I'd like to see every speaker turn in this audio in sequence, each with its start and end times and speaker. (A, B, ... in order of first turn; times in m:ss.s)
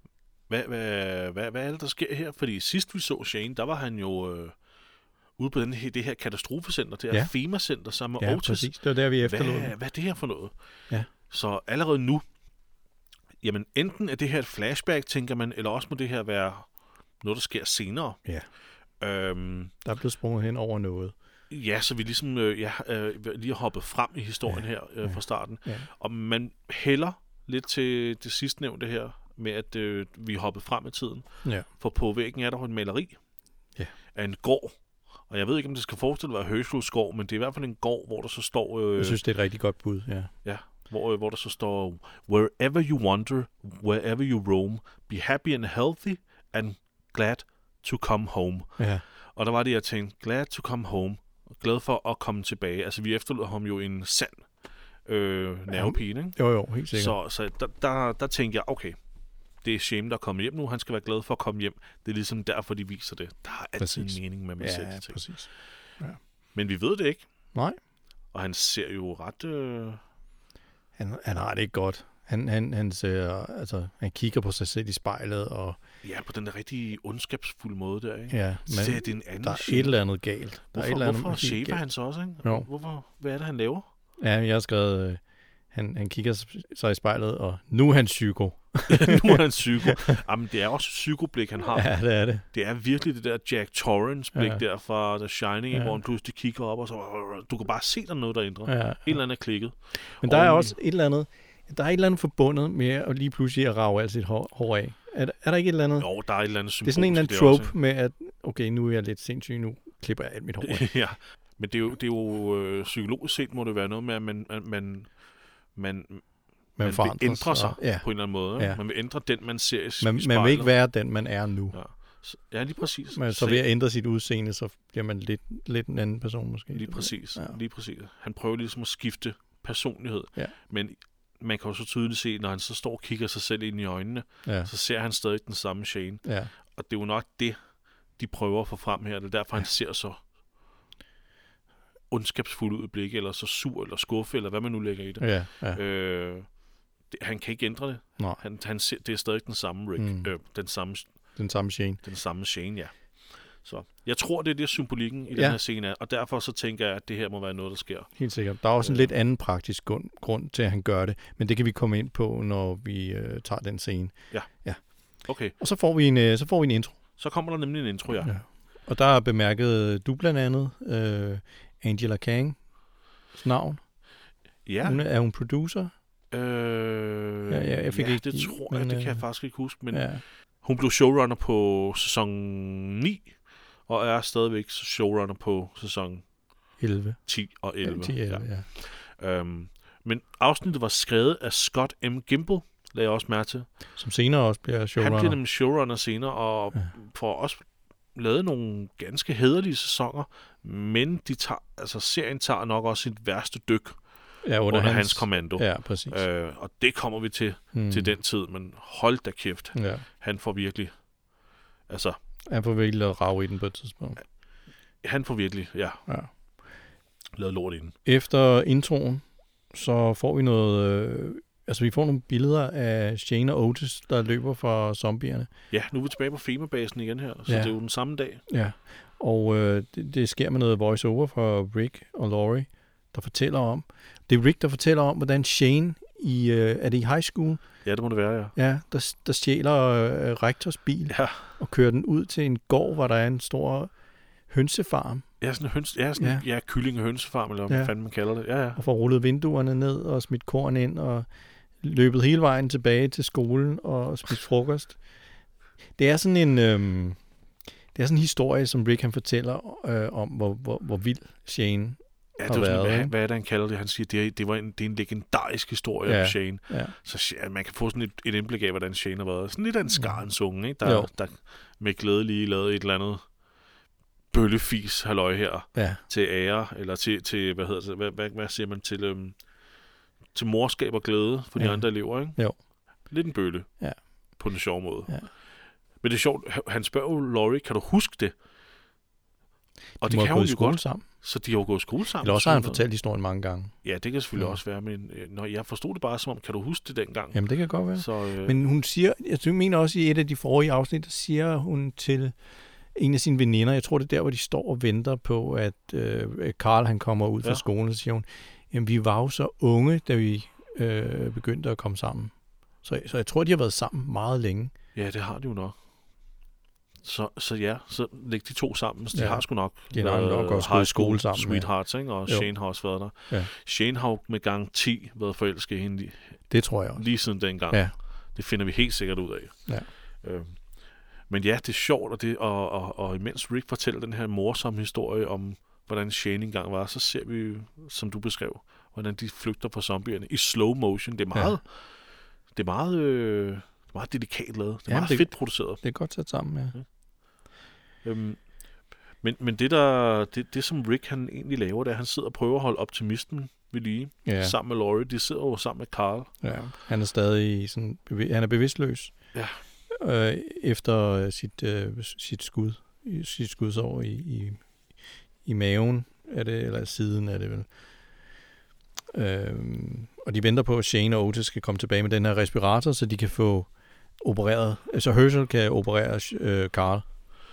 0:00.5-0:04.6 A
0:05.4-0:10.5 A
0:08.2-0:09.7 B
0:11.3-0:12.2 A
0:13.4-0:16.7 A
0:17.2-0:18.2 A
0:19.0-0:19.7 A
0:19.8-0:21.1 B
0:21.5-0:31.2 A
0:24.5-0:25.9 B
0:31.8-0:33.2 A
0:34.1-0:34.8 A
0:35.3-0:39.2 A
0:39.0-0:40.3 B
0:40.4-0:48.7 A
0:48.8-0:49.0 B
0:49.4-0:54.4 A
0:55.0-0:56.4 A
0:55.7-0:57.2 B
0:56.9-0:59.0 A
0:59.6-1:05.2 A
1:03.8-1:05.5 B
1:06.5-1:07.2 A
1:08.3-1:10.0 A
1:11.0-1:15.8 B
1:16.0-1:20.0 A
1:18.3-1:21.8 B
1:20.7-1:23.9 A
1:24.2-1:25.2 B
1:25.7-1:30.2 B
1:28.9-1:31.9 A
1:31.7-1:32.4 B
1:32.5-1:40.7 A
1:34.3-1:34.6 B
1:35.7-1:36.0 B
1:38.7-1:39.2 B
1:40.2-1:46.1 B
1:46.0-1:47.7 A
1:46.8-1:50.9 B
1:50.6-1:55.1 A
1:55.8-1:56.2 A
1:56.8-1:58.8 B
1:56.8-2:00.7 A
2:00.0-2:01.8 B
2:01.7-2:03.6 A
2:03.1-2:07.5 B
2:06.7-2:17.6 A
2:16.2-2:16.5 B
2:18.2-2:20.2 A
2:22.1-2:26.5 A
2:25.2-2:25.8 B
2:27.1-2:31.1 A
2:30.0-2:30.3 B
2:31.4-2:32.0 B
2:32.0-2:32.9 A
2:33.6-2:38.1 A
2:38.2-2:44.8 B
2:38.8-2:39.1 A
2:45.2-2:45.5 A
2:45.6-2:47.0 B
2:47.2-2:48.3 A
2:48.2-2:52.6 B
2:53.3-2:53.8 B
2:54.6-2:55.0 A
2:54.8-2:55.9 B
2:56.3-3:00.1 A
2:57.5-2:59.2 B
2:59.9-3:00.2 B
3:00.6-3:03.3 A
3:03.9-3:06.2 A
3:06.8-3:07.2 B
3:07.2-3:13.7 A
3:07.8-3:08.6 B
3:14.0-3:15.4 B
3:15.0-3:17.6 A
3:18.1-3:24.0 A
3:24.4-3:26.2 B
3:24.7-3:30.9 A
3:27.7-3:28.1 B
3:29.7-3:30.0 B
3:31.9-3:32.2 A
3:32.5-3:34.2 B
3:35.0-3:36.0 A
3:37.4-3:37.9 A
3:38.0-3:45.5 B
3:45.7-3:48.4 A
3:48.5-3:57.6 B
3:57.8-3:58.5 A
3:58.6-4:03.9 B
4:01.1-4:01.5 A
4:04.5-4:05.2 B
4:05.4-4:08.8 A
4:06.2-4:06.4 B
4:08.8-4:11.3 B
4:11.8-4:15.0 B
4:16.0-4:17.2 B
4:17.9-4:23.1 B
4:22.4-4:33.2 A
4:26.0-4:26.9 B
4:30.8-4:31.1 B
4:34.3-4:39.4 A
4:35.7-4:36.0 B
4:40.3-4:42.4 A
4:41.6-4:42.6 B
4:43.0-4:43.7 A
4:44.4-4:45.2 A
4:46.0-4:48.3 A
4:50.0-4:52.8 A
4:50.0-4:51.0 B
4:52.2-4:53.7 B
4:53.8-4:57.4 A
4:57.3-5:02.3 B
4:57.9-4:58.6 A
5:02.9-5:12.3 B
5:12.8-5:14.7 B
5:14.9-5:15.8 A
5:17.0-5:26.2 A
5:19.1-5:21.7 B
5:26.5-5:27.0 B
5:27.0-5:29.5 A
5:30.2-5:30.6 A
5:31.3-5:41.7 A
5:42.5-5:45.8 A
5:44.9-5:46.7 B
5:48.0-5:48.4 A
5:49.2-5:56.3 A
5:54.2-5:54.5 B
5:56.4-5:59.1 B
5:59.3-5:59.6 A
5:59.9-6:04.6 B
6:05.4-6:07.7 B
6:09.1-6:13.7 B
6:14.2-6:17.0 B